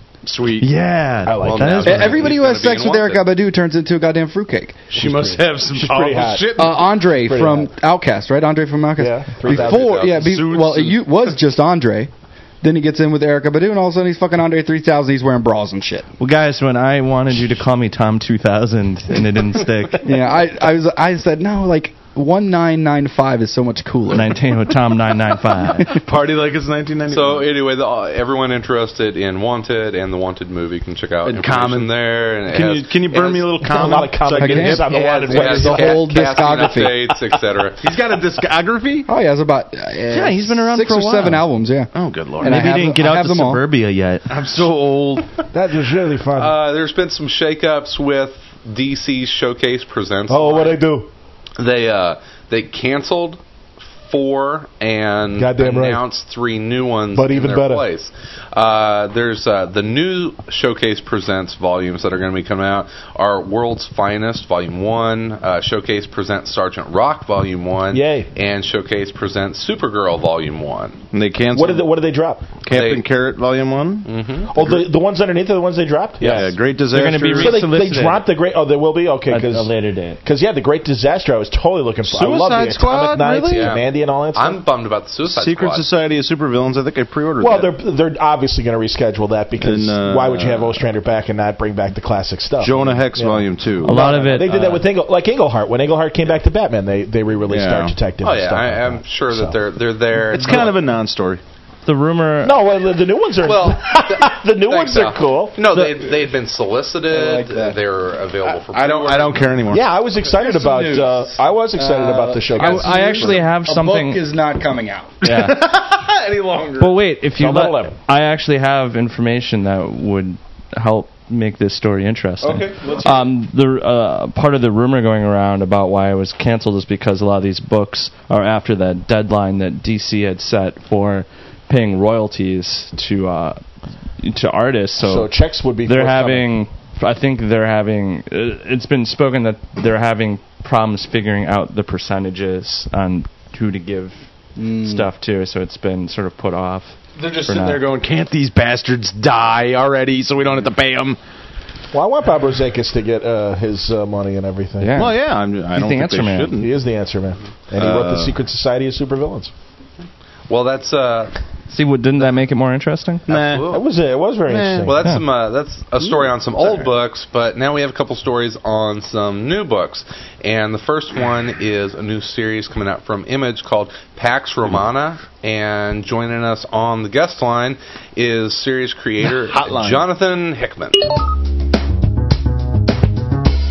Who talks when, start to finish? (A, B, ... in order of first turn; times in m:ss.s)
0:00.2-0:00.7 A
0:00.6-0:02.2 B
0:01.2-0:02.2 C
0:01.4-0:03.2 D
0:01.8-0:04.8 E
0:04.9-0:06.9 A
0:05.7-0:07.7 C
0:06.6-0:12.1 E
0:09.0-0:10.0 C
0:09.4-0:10.3 D
0:10.0-0:11.1 A
0:12.6-0:16.1 E
0:16.2-0:20.1 B
0:20.0-0:24.4 E
0:24.1-0:26.0 B
0:25.9-0:27.5 A
0:27.1-0:33.5 D
0:31.2-0:35.0 A
0:33.6-0:36.1 C
0:34.4-0:37.1 E
0:34.9-0:37.9 D
0:37.8-0:39.1 A
0:39.1-0:43.6 E
0:40.1-0:41.5 B
0:41.9-0:42.6 A
0:42.4-0:44.3 B
0:44.3-0:45.3 A
0:45.5-0:46.6 C
0:46.4-0:50.8 D
0:50.3-0:51.1 C
0:51.6-0:53.4 D
0:54.0-1:11.0 D
0:55.4-0:56.0 C
0:57.1-0:57.8 C
1:07.9-1:08.3 C
1:11.1-1:11.9 A
1:11.5-1:12.6 C
1:12.6-1:14.7 A
1:12.7-1:13.0 D
1:14.0-1:14.8 D
1:14.5-1:16.5 C
1:16.2-1:17.7 A
1:16.2-1:16.5 D
1:16.9-1:18.3 B
1:17.4-1:24.6 C
1:19.3-1:20.2 B
1:22.0-1:23.7 A
1:23.5-1:25.9 D
1:25.2-1:27.7 A
1:27.4-1:39.6 C
1:29.6-1:30.8 A
1:32.6-1:34.0 A
1:33.8-1:34.8 B
1:37.5-1:38.0 A
1:38.2-1:40.8 D
1:40.3-1:41.4 A
1:41.8-1:42.6 B
1:42.4-1:45.6 C
1:43.4-1:49.6 D
1:47.1-1:47.8 E
1:48.5-1:49.9 A
1:49.7-1:53.5 C
1:50.2-1:55.2 E
1:52.5-1:54.2 B
1:55.2-1:55.7 B
1:55.3-1:57.0 A
1:56.8-2:27.8 B
1:57.4-1:58.0 C
2:02.4-2:03.3 A
2:15.0-2:16.5 C
2:24.6-2:25.1 E
2:27.2-2:31.2 A
2:31.9-2:35.0 C
2:34.8-2:35.1 E
2:35.0-2:36.8 A
2:35.7-2:36.6 B
2:36.6-2:39.5 C
2:37.8-2:38.4 A
2:40.5-2:41.3 D
2:41.7-2:43.3 B
2:43.3-2:43.7 A
2:43.3-2:43.8 D
2:43.7-2:45.0 C
2:44.5-2:45.0 A
2:44.8-3:01.1 D
2:59.3-3:00.1 A